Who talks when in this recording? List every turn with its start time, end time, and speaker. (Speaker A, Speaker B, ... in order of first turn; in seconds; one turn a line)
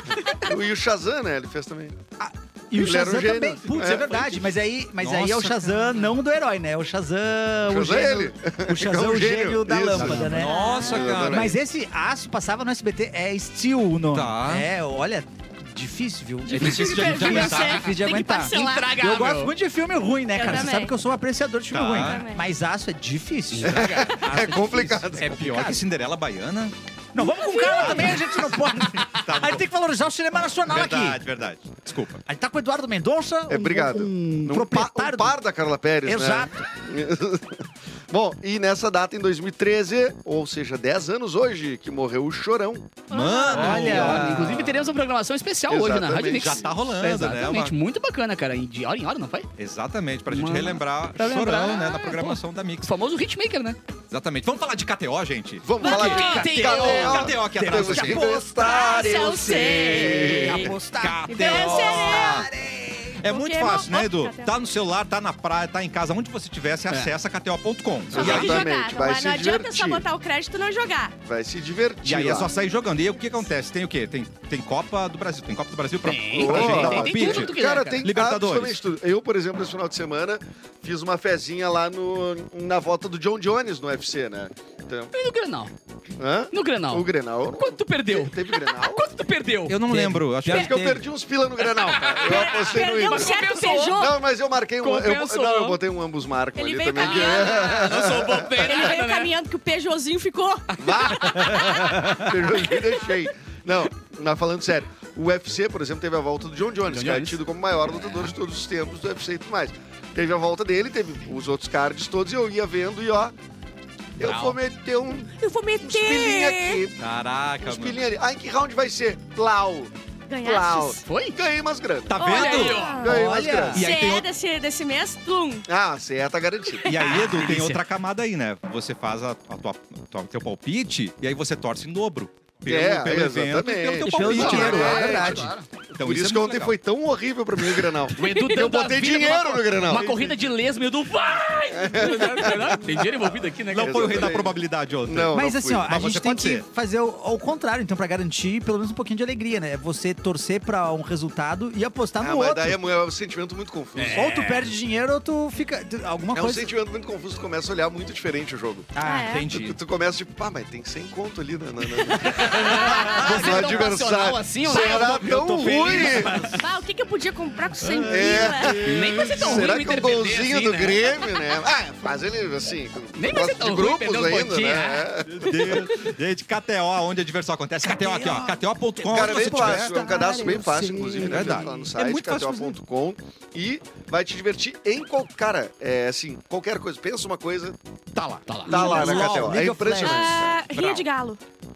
Speaker A: 0.4-2.0
Speaker B: 2.2-25.8
Speaker A: 2.8-4.4
Speaker C: 5.0-6.1
Speaker A: 7.7-11.6
Speaker C: 9.9-11.6
Speaker D: 10.5-11.1
Speaker C: 14.1-14.7
Speaker D: 16.5-18.9
Speaker C: 16.5-17.9
Speaker E: 18.4-19.5
Speaker D: 20.3-20.9
Speaker C: 21.7-22.2
Speaker D: 21.9-22.5
Speaker E: 23.5-25.0
Speaker A: 23.6-25.8
Speaker C: 25.1-26.7
Speaker B: 27.1-31.2
Speaker D: 27.3-28.2
Speaker C: 27.7-28.2
Speaker C: 29.1-29.6
Speaker C: 30.7-32.2
Speaker B: 32.3-35.4
Speaker A: 33.5-43.0
Speaker B: 36.0-36.6
Speaker D: 43.1-43.9
Speaker C: 43.1-44.6
Speaker B: 43.5-44.8
Speaker E: 43.5-49.5
Speaker A: 45.7-46.8
Speaker C: 46.3-47.7
Speaker C: 49.6-52.9
Speaker E: 50.3-53.8
Speaker C: 54.1-58.4
Speaker A: 55.6-60.8
Speaker E: 55.8-57.3
Speaker D: 55.8-56.5
Speaker B: 56.0-63.2
Speaker D: 58.6-60.7
Speaker C: 60.7-62.5
Speaker D: 61.3-62.5
Speaker C: 63.2-68.7
Speaker D: 63.3-64.5
Speaker A: 68.1-70.0
Speaker D: 68.1-71.2
Speaker A: 71.2-72.5
Speaker C: 72.0-78.8
Speaker E: 76.0-78.1
Speaker A: 76.3-85.1
Speaker E: 85.1-85.7
Speaker A: 86.2-89.1
Speaker E: 86.5-89.8
Speaker C: 89.7-90.8
Speaker B: 89.9-91.0
Speaker A: 90.5-98.9
Speaker E: 91.8-94.1
Speaker D: 92.2-94.2
Speaker E: 94.8-95.8
Speaker D: 96.6-97.8
Speaker E: 97.0-99.3
Speaker D: 98.6-102.0
Speaker A: 100.8-113.4
Speaker E: 106.9-107.4
Speaker E: 107.9-108.3
Speaker A: 114.2-117.0
Speaker E: 114.2-114.5
Speaker D: 115.3-116.8
Speaker C: 117.0-118.0
Speaker A: 117.6-122.4
Speaker D: 120.3-121.0
Speaker E: 121.0-121.4
Speaker C: 122.1-122.9
Speaker D: 122.2-123.2
Speaker E: 122.3-123.1
Speaker A: 123.0-123.9
Speaker B: 123.0-123.8
Speaker C: 123.7-124.3
Speaker D: 123.7-125.7
Speaker A: 125.7-127.0
Speaker C: 126.8-136.8
Speaker E: 127.0-127.8
Speaker A: 132.7-140.2
Speaker B: 134.0-135.5
Speaker E: 134.7-135.7
Speaker E: 138.1-144.3
Speaker C: 139.9-140.3
Speaker A: 141.7-143.1
Speaker A: 143.7-146.1
Speaker C: 143.7-146.6
Speaker B: 145.3-152.8
Speaker A: 152.2-154.2
Speaker E: 154.0-154.7
Speaker B: 154.1-156.7
Speaker A: 156.3-158.9
Speaker B: 158.9-159.4
Speaker D: 159.0-159.5
Speaker C: 159.3-159.8
Speaker A: 159.5-166.6
Speaker D: 162.1-163.5
Speaker E: 162.4-165.3
Speaker B: 163.3-163.7
Speaker B: 164.7-166.6
Speaker D: 166.6-169.6
Speaker A: 168.1-175.9
Speaker C: 168.6-169.6
Speaker E: 168.8-171.1
Speaker E: 173.2-175.2
Speaker C: 175.3-179.9
Speaker B: 177.8-181.9
Speaker A: 179.0-187.8
Speaker C: 181.2-182.8
Speaker C: 188.1-188.5
Speaker E: 188.5-189.1
Speaker A: 188.7-190.6
Speaker D: 188.7-189.3
Speaker B: 188.7-190.6
Speaker D: 190.0-191.4
Speaker C: 190.7-191.0